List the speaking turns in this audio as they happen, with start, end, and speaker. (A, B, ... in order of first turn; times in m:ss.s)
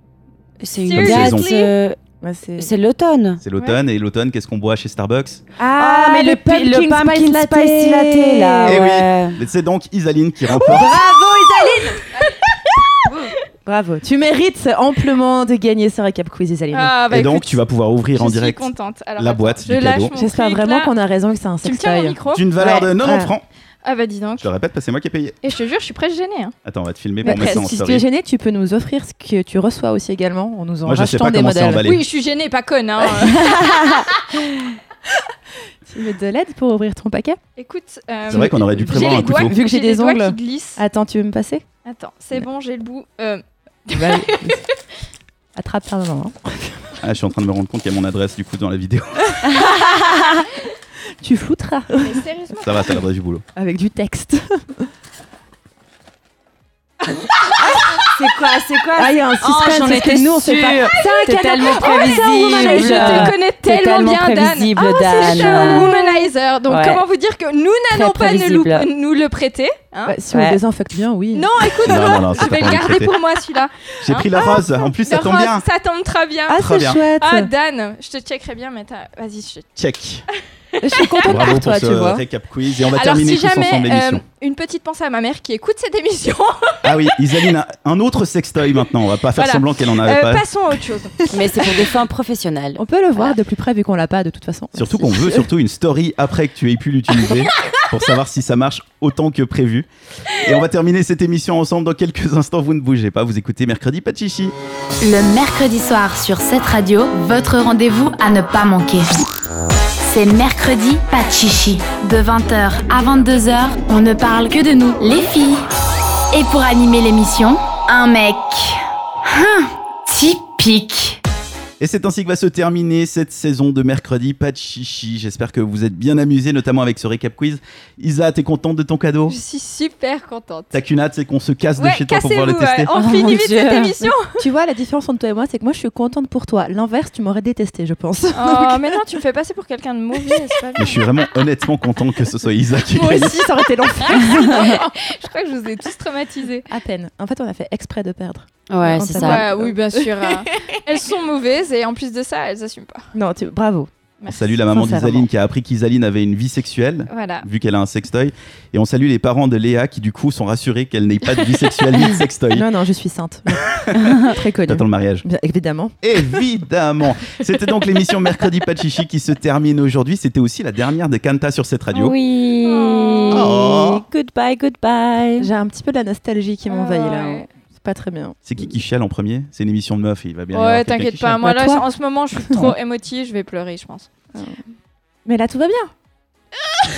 0:00.6-0:02.0 A
0:00.8-0:01.7 B
0:00.9-0:01.5 C
0:02.2-0:02.7 D
0:02.6-0:03.4 A
0:03.4-0:05.4 C
0:05.6-0:08.9 D
0:05.8-0:09.4 A
0:08.6-0:11.0 C
0:10.5-0:17.0 D
0:12.1-0:12.4 B
0:16.7-0:17.6 B
0:17.1-0:20.2 C
0:18.2-0:20.9 B
0:20.2-0:23.3 D
0:21.6-0:22.8 B
0:22.3-0:23.4 C
0:23.8-0:24.5 B
0:24.4-0:25.4 C
0:25.4-0:26.5 B
0:26.6-0:28.1 C
0:27.2-0:31.8 D
0:30.9-0:32.1 C
0:31.8-0:33.5 B
0:33.2-0:34.1 A
0:35.8-0:37.4 D
0:37.6-0:40.8 B
0:38.3-0:39.6 C
0:38.3-0:41.6 D
0:41.8-0:44.7 B
0:43.9-0:44.6 D
0:45.6-0:47.0 D
0:47.0-0:49.6 C
0:51.1-0:52.2 D
0:52.0-0:52.9 B
0:52.6-0:53.4 C
0:53.6-0:54.9 D
0:57.7-1:07.0 A
0:59.0-1:03.4 D
1:00.9-1:10.2 B
1:05.2-1:06.0 D
1:07.9-1:08.9 A
1:10.1-1:12.3 D
1:10.3-1:10.6 A
1:11.3-1:19.7 B
1:11.9-1:13.2 C
1:14.0-1:15.6 C
1:16.5-1:17.5 D
1:16.6-1:17.0 C
1:19.8-1:20.3 C
1:20.8-1:22.2 D
1:20.9-1:21.4 B
1:21.3-1:24.2 C
1:23.0-1:27.1 B
1:26.8-1:30.4 C
1:29.4-1:31.8 B
1:31.3-1:33.3 A
1:32.8-1:35.5 D
1:34.7-1:44.5 C
1:45.0-1:49.2 E
1:50.0-1:55.7 E
1:56.3-2:01.2 E
2:01.8-2:09.4 C
2:09.3-2:10.7 B
2:10.7-2:12.9 C
2:11.8-2:14.4 B
2:12.9-2:19.2 D
2:18.4-2:21.1 B
2:20.2-2:20.6 D
2:20.8-2:23.5 C
2:22.9-2:25.0 D
2:24.0-2:26.7 B
2:26.7-2:30.8 D
2:28.7-2:29.5 A
2:29.2-2:33.0 B
2:33.1-2:33.9 D
2:34.2-2:34.5 B
2:34.3-2:42.7 C
2:34.6-2:35.3 D
2:37.1-2:37.5 B
2:42.5-2:45.9 D
2:43.5-2:44.0 C
2:44.0-2:44.3 A
2:44.7-2:45.3 C
2:46.0-2:52.2 C
2:51.9-2:55.5 A
2:52.6-2:53.5 B
2:53.3-2:54.0 C
2:55.4-2:58.4 D
2:56.7-2:57.5 B
2:58.4-3:01.4 C
3:00.5-3:04.1 B
3:01.4-3:02.8 D
3:04.3-3:04.6 D
3:05.2-3:05.9 D